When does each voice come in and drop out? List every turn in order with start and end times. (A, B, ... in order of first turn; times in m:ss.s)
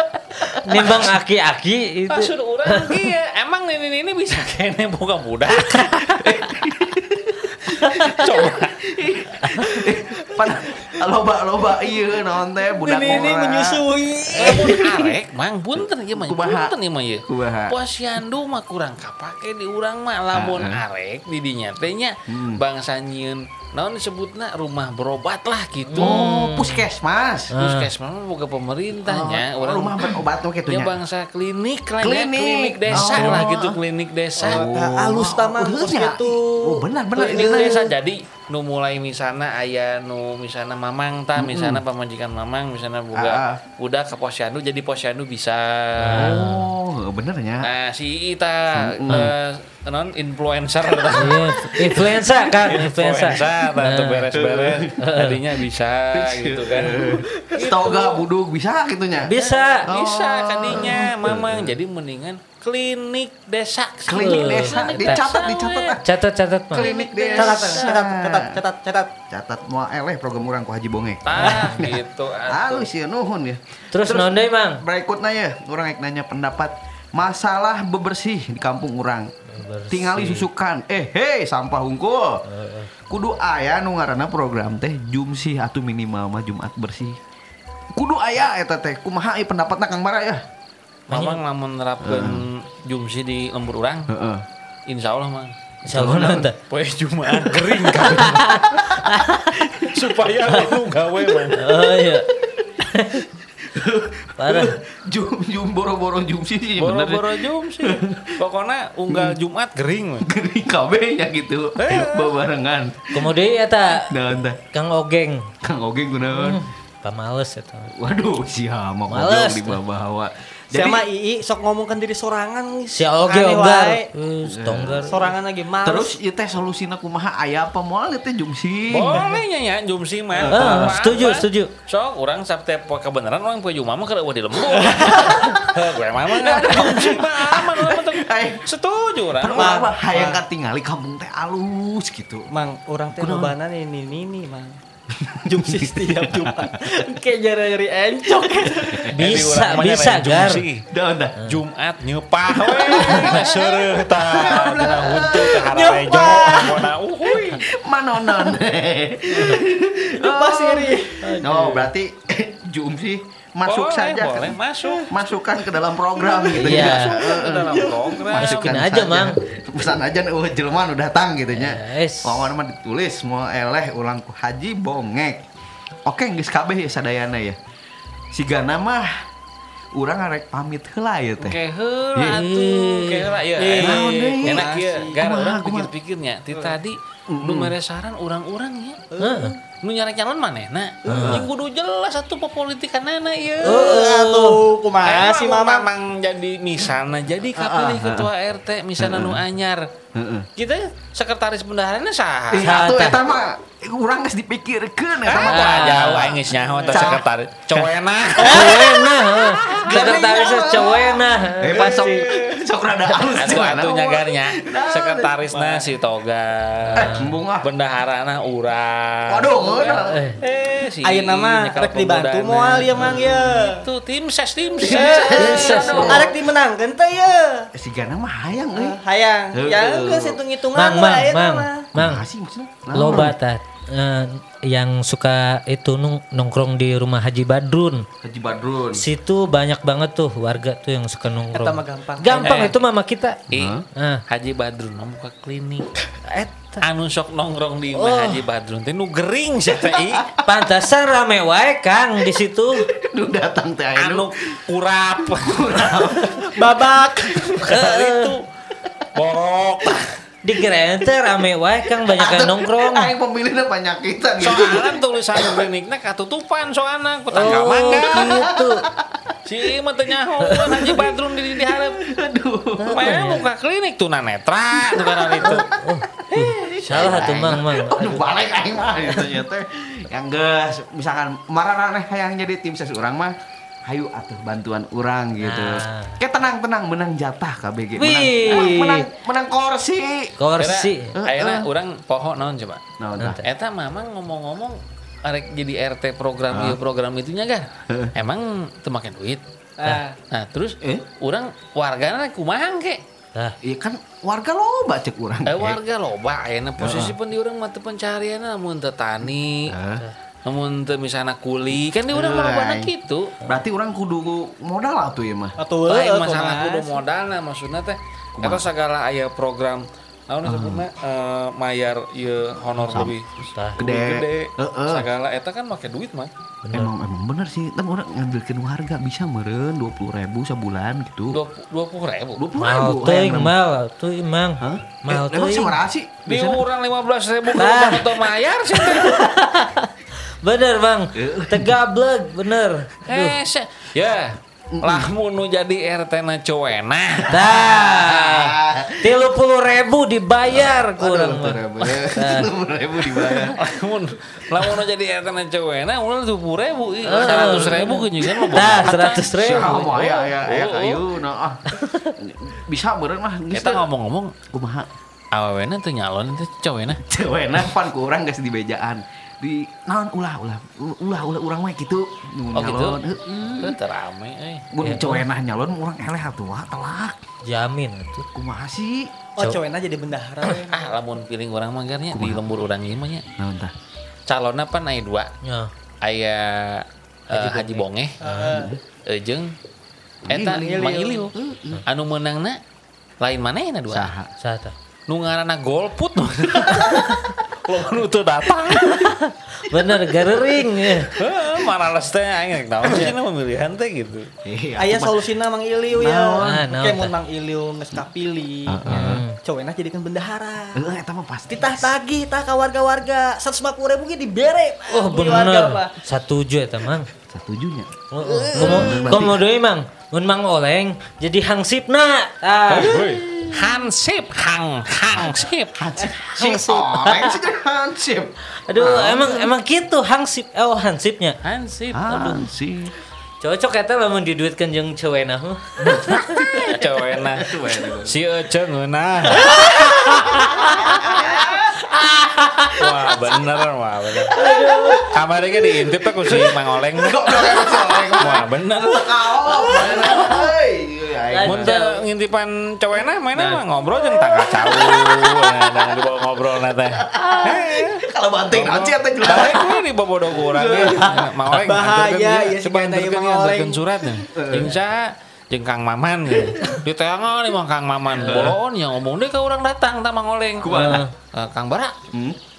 0:00.4-0:01.0 A
0:00.5-0:03.0 B
0:00.7-0:01.1 C
0:02.1-0:06.2 C
0:06.1-0:13.8 A
0:07.8-0:08.8 C
0:09.6-0:11.0 D
0:12.8-0:15.2 D
0:14.3-0:15.0 A
0:14.3-0:26.3 C
0:16.1-0:16.7 A
0:17.3-0:17.8 A
0:20.3-0:20.8 A
0:22.3-0:22.6 A
0:25.8-0:26.9 B
0:26.0-0:27.5 A
0:27.5-0:27.9 B
0:27.6-0:34.6 C
0:29.0-0:31.0 A
0:32.0-0:33.8 A
0:32.9-0:33.4 B
0:34.4-0:37.7 D
0:34.4-0:37.9 A
0:37.1-0:46.6 C
0:41.3-0:41.8 A
0:43.1-0:43.6 A
0:46.0-0:46.7 B
0:46.1-0:47.7 A
0:47.6-0:58.2 C
0:48.7-0:49.3 A
0:51.1-0:51.3 A
0:51.1-0:54.2 B
0:52.0-0:52.7 A
0:54.3-0:54.9 A
0:55.0-0:55.4 B
0:56.1-0:59.3 A
0:56.9-0:58.0 D
0:59.2-0:59.9 B
0:59.4-0:59.8 D
0:59.8-1:01.7 A
0:59.9-1:06.0 C
1:04.1-1:06.1 A
1:04.1-1:05.2 B
1:06.0-1:07.8 B
1:06.7-1:08.6 A
1:06.8-1:07.9 C
1:07.4-1:09.1 D
1:09.3-1:19.3 A
1:11.2-1:12.9 C
1:11.4-1:11.7 B
1:13.9-1:14.8 B
1:19.5-1:20.5 B
1:19.9-1:22.4 A
1:22.4-1:22.9 B
1:23.1-1:27.2 A
1:27.9-1:30.4 A
1:31.1-1:34.1 C
1:31.1-1:31.4 B
1:32.0-1:32.4 A
1:34.1-1:34.4 A
1:34.9-1:35.5 C
1:35.8-1:36.6 B
1:35.9-1:36.5 A
1:36.7-1:39.0 C
1:38.0-1:39.7 B
1:39.6-1:41.7 C
1:41.4-1:43.2 B
1:43.6-1:48.4 A
1:44.4-1:44.7 B
1:46.8-1:50.3 C
1:49.1-1:49.4 A
1:50.2-1:53.4 A
1:51.8-1:52.4 C
1:53.1-1:54.2 B
1:54.0-1:54.6 A
1:54.7-1:55.4 B
1:55.6-1:56.6 A
1:56.3-1:57.9 B
1:57.9-2:01.0 A
1:59.1-1:59.8 B
2:00.7-2:04.1 D
2:02.9-2:05.3 B
2:04.4-2:05.3 A
2:05.0-2:06.2 D
2:05.8-2:09.3 A
2:08.9-2:19.8 C
2:10.3-2:11.0 A
2:10.5-2:11.7 B
2:14.8-2:15.1 D
2:14.9-2:18.6 A
2:19.4-2:22.5 A
2:19.5-2:20.4 D
2:22.5-2:24.8 D
2:23.1-2:23.5 A
2:25.1-2:26.8 A
2:25.4-2:29.1 D
2:28.6-2:29.0 A
2:29.1-2:30.6 B
2:29.2-2:30.8 C
2:30.9-2:31.4 A
2:31.4-2:37.6 C
2:32.7-2:35.7 A
2:33.0-2:33.3 B
2:35.5-2:36.9 D
2:37.3-2:55.4 A
2:39.3-2:39.6 B
2:40.1-2:41.3 D
2:41.2-2:41.9 B
2:43.6-2:45.1 C
2:46.2-2:48.2 D
2:46.6-2:47.2 B
2:46.7-2:48.8 C
2:48.3-2:49.4 B
2:51.5-2:52.5 B
2:56.0-2:57.6 A
2:58.3-2:59.2 A
2:59.9-3:01.6 A
3:01.4-3:09.1 C
3:02.1-3:02.5 A
3:02.3-3:03.3 B
3:03.6-3:05.2 D
3:03.7-3:05.9 A
3:07.3-3:07.7 A
3:09.1-3:09.6 D
3:09.2-3:09.5 B
3:09.8-3:13.9 C
3:11.0-3:11.5 A
3:11.1-3:11.4 B
3:13.6-3:14.6 B
3:13.6-3:15.9 D
3:15.0-3:19.9 C
3:17.5-3:18.3 A
3:19.0-3:19.4 A
3:20.1-3:20.5 A
3:20.6-3:22.8 C
3:22.5-3:28.8 A
3:22.6-3:23.2 B
3:25.2-3:30.4 C
3:25.3-3:26.4 B
3:28.4-3:32.3 B
3:29.8-3:35.8 A
3:31.9-3:32.5 C
3:33.3-3:46.2 C
3:36.9-3:37.3 B
3:36.9-3:37.7 A
3:39.3-3:40.2 A
3:40.1-3:40.4 B
3:41.0-3:43.8 D
3:44.8-3:46.4 A
3:44.8-3:47.7 D
3:45.6-3:46.2 B
3:47.7-3:49.0 A
3:48.7-3:51.9 D
3:49.5-3:50.4 A
3:50.7-3:52.2 B
3:51.9-3:53.4 A
3:52.9-3:58.1 B
3:58.2-3:59.0 A
3:58.9-4:03.4 B
4:01.5-4:02.7 D
4:02.4-4:02.8 C
4:03.5-4:03.8 C
4:03.5-4:03.8 A
4:03.9-4:04.2 B
4:04.3-4:05.9 C
4:06.8-4:10.3 C
4:07.9-4:08.4 B
4:09.8-4:10.4 A
4:10.4-4:12.9 B
4:12.8-4:14.3 A
4:13.9-4:16.0 C
4:15.2-4:17.7 A
4:16.4-4:17.6 D
4:17.5-4:18.4 C
4:17.7-4:18.4 B
4:19.1-4:20.1 C
4:20.4-4:23.1 B
4:22.0-4:25.6 A
4:24.4-4:28.3 C
4:27.3-4:28.9 B
4:28.1-4:29.3 A
4:29.4-4:32.0 C
4:30.4-4:30.8 B
4:30.6-4:31.1 A
4:31.7-4:33.2 A
4:32.8-4:33.4 B
4:32.8-4:35.7 C
4:34.7-4:35.6 A
4:35.4-4:38.2 B
4:36.2-4:43.3 A
4:36.8-4:37.4 C
4:43.8-4:50.3 A
4:45.4-4:46.2 B
4:48.0-4:49.0 B
4:50.4-4:51.2 B
4:50.6-4:52.8 C
4:51.1-4:51.7 A
4:53.0-4:53.4 A
4:53.4-4:59.4 C
4:56.5-4:56.8 A
4:59.8-5:00.1 D
5:00.3-5:03.0 C
5:03.6-5:05.8 A
5:05.5-5:09.7 C
5:06.8-5:07.2 A
5:09.7-5:10.0 A
5:10.4-5:13.4 C
5:12.1-5:12.9 A
5:13.4-5:15.6 A
5:15.6-5:17.0 D
5:15.8-5:26.3 C
5:18.4-5:18.7 A
5:20.4-5:20.8 A
5:22.9-5:23.2 A
5:23.5-5:23.8 B
5:23.8-5:25.1 A
5:26.6-5:26.9 B
5:26.7-5:31.4 A
5:31.3-5:32.4 C
5:32.4-5:33.5 A
5:32.6-5:35.8 B
5:34.6-5:36.6 A
5:36.2-5:39.2 C
5:37.5-5:39.9 B
5:40.4-5:43.4 B
5:41.1-5:41.7 A
5:43.0-5:48.5 C
5:44.7-5:45.1 A
5:47.3-5:52.5 B
5:47.4-5:49.2 A
5:50.5-5:53.6 A
5:53.5-6:01.0 C
5:57.0-5:59.9 B
5:57.4-5:57.8 A
5:58.5-6:03.8 A
6:03.5-6:04.3 C
6:04.5-6:04.9 A
6:05.3-6:07.0 C
6:07.0-6:13.8 A
6:12.5-6:13.0 C
6:13.6-6:14.7 C
6:14.7-6:17.2 A
6:14.8-6:15.2 B
6:17.4-6:18.3 B
6:18.3-6:19.1 A
6:19.4-6:20.8 D
6:20.7-6:23.2 C
6:22.1-6:22.5 A
6:23.4-6:23.7 A
6:24.3-6:25.3 C
6:25.4-6:25.7 B
6:26.0-6:28.2 C
6:27.3-6:28.6 B
6:28.2-6:28.7 D
6:28.4-6:28.8 A
6:29.0-6:29.5 C
6:30.2-6:31.3 C
6:30.2-6:31.8 A
6:30.5-6:31.3 D
6:31.8-6:32.6 C
6:33.2-6:34.1 C
6:33.9-6:34.3 A
6:34.4-6:34.7 B
6:35.1-6:39.1 C
6:38.8-6:41.1 B
6:41.1-6:44.3 C
6:44.4-6:45.2 A
6:44.8-6:48.9 D
6:45.9-6:46.6 A
6:46.4-6:47.1 B
6:48.7-6:49.2 A
6:48.9-6:49.4 B
6:49.4-6:50.8 D
6:50.7-6:51.9 A
6:51.5-6:55.9 D
6:54.9-6:57.1 B
6:57.3-6:58.0 A
6:58.1-7:03.6 B
6:58.2-6:58.8 D
6:58.5-6:59.4 A
7:02.7-7:05.8 C
7:05.7-7:09.5 A
7:06.4-7:07.4 B
7:08.6-7:11.4 B
7:08.8-7:09.2 C
7:11.4-7:12.1 C
7:11.9-7:12.9 A
7:12.1-7:12.4 B
7:13.4-7:16.4 B
7:15.8-7:18.1 A
7:16.6-7:19.7 C
7:19.4-7:22.6 A
7:19.4-7:21.2 B
7:22.8-7:24.4 C
7:24.3-7:25.1 B
7:24.4-7:25.1 A
7:25.1-7:29.3 C
7:26.3-7:31.7 A
7:29.5-7:30.5 B
7:31.3-7:32.0 B
7:31.4-7:51.9 C
7:33.3-7:35.9 A
7:37.0-7:39.8 A
7:40.4-7:41.3 A
7:41.0-7:43.8 D
7:44.3-7:44.8 A
7:48.2-7:48.6 A
7:48.2-7:48.5 B
7:50.6-7:51.1 A
7:50.7-7:51.1 B
7:52.1-7:52.4 A